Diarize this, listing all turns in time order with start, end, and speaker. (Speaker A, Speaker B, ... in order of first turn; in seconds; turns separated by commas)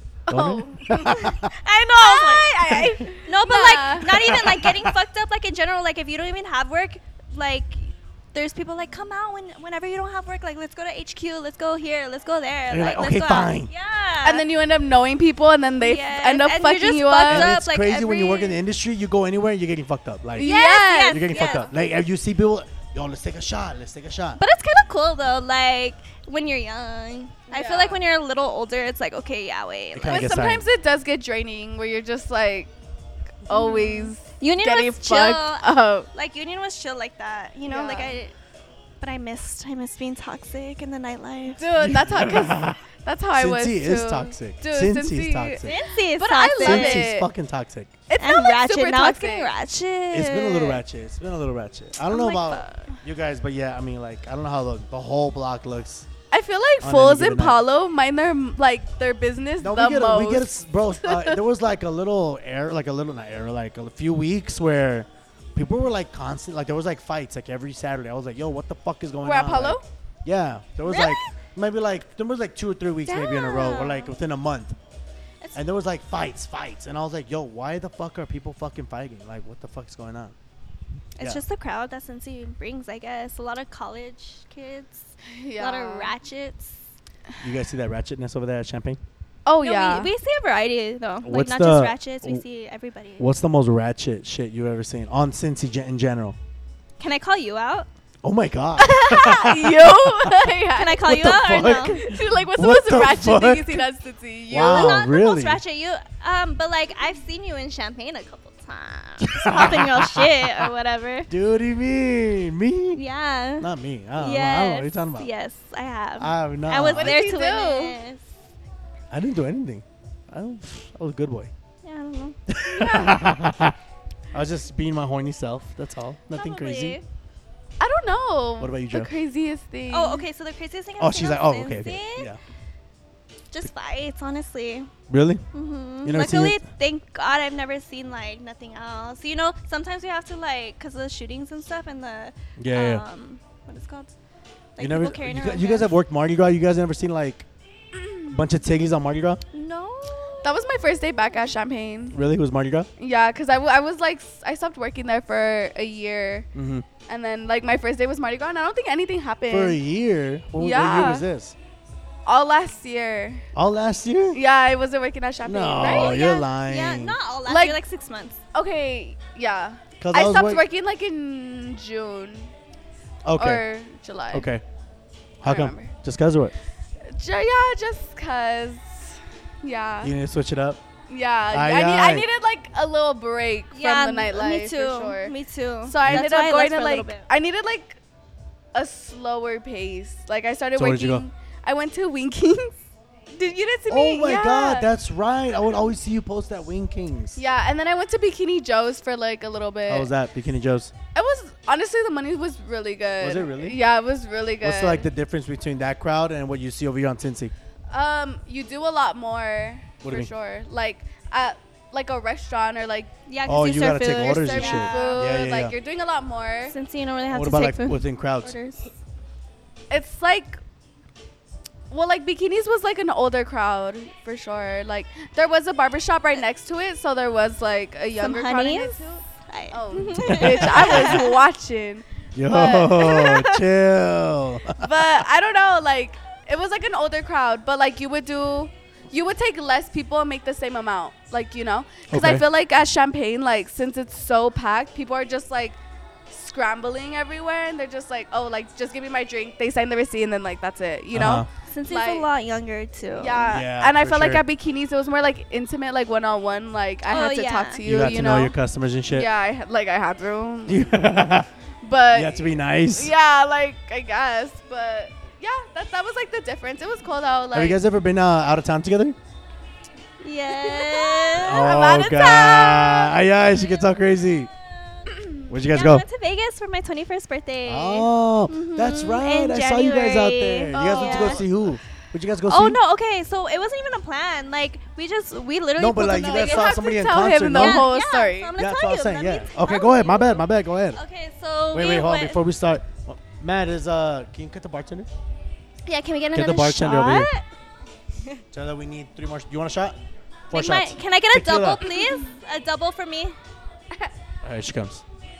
Speaker A: 0.3-1.3, Speaker B: 0.3-1.5, Speaker C: 1.4-14.4, Speaker A: 2.0-4.3, Speaker B: 4.1-4.9, Speaker B: 12.7-13.7, Speaker A: 14.2-17.5, Speaker C: 15.8-18.6, Speaker B: 17.3-20.5, Speaker A: 20.4-21.4, Speaker C: 20.4-21.7, Speaker B: 21.1-24.4, Speaker C: 24.4-30.4, Speaker A: 27.5-28.0, Speaker B: 29.9-30.6, Speaker A: 30.1-32.7, Speaker A: 33.5-36.1, Speaker C: 33.5-38.3, Speaker A: 37.7-38.2, Speaker C: 39.0-41.7, Speaker A: 41.6-47.3, Speaker B: 41.8-42.8, Speaker B: 43.3-45.7, Speaker C: 45.6-47.1, Speaker B: 46.6-48.0, Speaker A: 48.1-49.5, Speaker C: 48.2-50.8, Speaker B: 50.1-56.1, Speaker C: 52.1-53.0, Speaker A: 56.3-60.5, Speaker B: 56.8-57.6, Speaker B: 59.6-74.8, Speaker A: 61.0-61.4, Speaker A: 69.2-69.8, Speaker C: 70.8-71.2, Speaker C: 73.1-74.1, Speaker B: 75.5-80.3, Speaker C: 81.2-86.8, Speaker A: 85.3-86.1, Speaker B: 87.4-89.0, Speaker A: 89.5-90.1, Speaker C: 89.6-93.2, Speaker B: 91.2-92.4, Speaker B: 93.2-96.3, Speaker C: 97.0-97.9, Speaker B: 98.2-100.5, Speaker A: 98.8-105.0, Speaker C: 100.8-102.0, Speaker B: 101.0-103.8, Speaker B: 104.5-105.6, Speaker C: 104.6-111.3, Speaker B: 109.2-110.7, Speaker B: 111.3-113.0, Speaker C: 112.9-118.2, Speaker B: 113.6-115.3, Speaker B: 116.2-117.2, Speaker A: 116.9-118.0, Speaker B: 119.1-121.5, Speaker C: 121.8-122.4, Speaker B: 122.5-123.8, Speaker A: 122.7-123.2, Speaker B: 124.3-127.0, Speaker C: 126.3-127.0, Speaker A: 127.8-130.2, Speaker B: 128.6-129.1, Speaker C: 129.9-132.3, Speaker B: 131.0-132.4, Speaker C: 133.5-134.9, Speaker B: 135.1-135.4, Speaker C: 135.5-144.1, Speaker B: 136.0-136.6, Speaker B: 142.6-143.0, Speaker C: 144.8-145.9, Speaker B: 144.8-147.4, Speaker B: 148.3-149.4, Speaker C: 149.5-150.4, Speaker A: 150.4-152.2, Speaker B: 152.1-152.9, Speaker A: 153.0-156.5, Speaker B: 156.5-156.8, Speaker A: 157.1-159.8, Speaker B: 159.5-161.5, Speaker A: 160.6-161.2, Speaker A: 162.2-163.4, Speaker B: 163.5-164.4, Speaker A: 164.3-166.4, Speaker B: 165.4-167.2, Speaker C: 165.8-168.4, Speaker A: 167.4-167.8, Speaker A: 168.5-172.5, Speaker B: 170.0-170.6, Speaker B: 173.2-173.6, Speaker A: 173.3-174.5, Speaker B: 174.3-174.6, Speaker B: 175.4-176.5, Speaker A: 175.4-175.9, Speaker A: 177.1-180.1, Speaker B: 180.0-180.8, Speaker A: 181.1-185.3, Speaker B: 181.5-182.3, Speaker C: 183.7-187.2, Speaker A: 185.8-188.0, Speaker A: 188.7-194.9, Speaker B: 190.8-191.2, Speaker B: 193.9-197.4, Speaker A: 197.3-200.1, Speaker B: 199.9-200.9, Speaker A: 201.1-205.1, Speaker B: 203.2-203.8, Speaker B: 204.6-207.5, Speaker A: 207.9-213.1, Speaker B: 210.0-210.3, Speaker C: 213.3-215.3, Speaker B: 213.4-215.7, Speaker A: 214.3-216.7, Speaker C: 216.7-218.9, Speaker B: 217.3-218.5, Speaker A: 219.9-220.6, Speaker A: 221.9-233.3, Speaker C: 228.2-231.4, Speaker B: 230.2-231.3, Speaker B: 232.3-235.2, Speaker C: 233.0-233.6, Speaker A: 234.8-245.8, Speaker B: 242.1-242.4, Speaker A: 246.3-252.2, Speaker B: 251.1-251.5, Speaker C: 251.6-253.6, Speaker A: 253.2-258.5, Speaker B: 253.5-254.4, Speaker C: 257.1-257.8, Speaker B: 257.8-259.3, Speaker A: 259.1-260.9, Speaker B: 260.7-261.5, Speaker A: 261.8-267.8, Speaker B: 262.1-263.1, Speaker B: 267.5-269.1, Speaker C: 270.2-271.7, Speaker A: 270.5-273.1, Speaker B: 271.4-274.5, Speaker C: 274.9-281.4, Speaker B: 275.5-276.0, Speaker B: 277.6-282.8, Speaker A: 280.7-281.4, Speaker C: 282.5-286.8, Speaker B: 285.8-287.9, Speaker A: 286.1-288.5, Speaker C: 287.5-292.4, Speaker B: 288.6-291.0, Speaker B: 291.7-295.1, Speaker C: 295.9-297.4, Speaker B: 296.3-297.3, Speaker B: 298.5-299.9, Speaker B: 300.5-301.9, Speaker C: 300.5-303.4, Speaker B: 304.4-305.0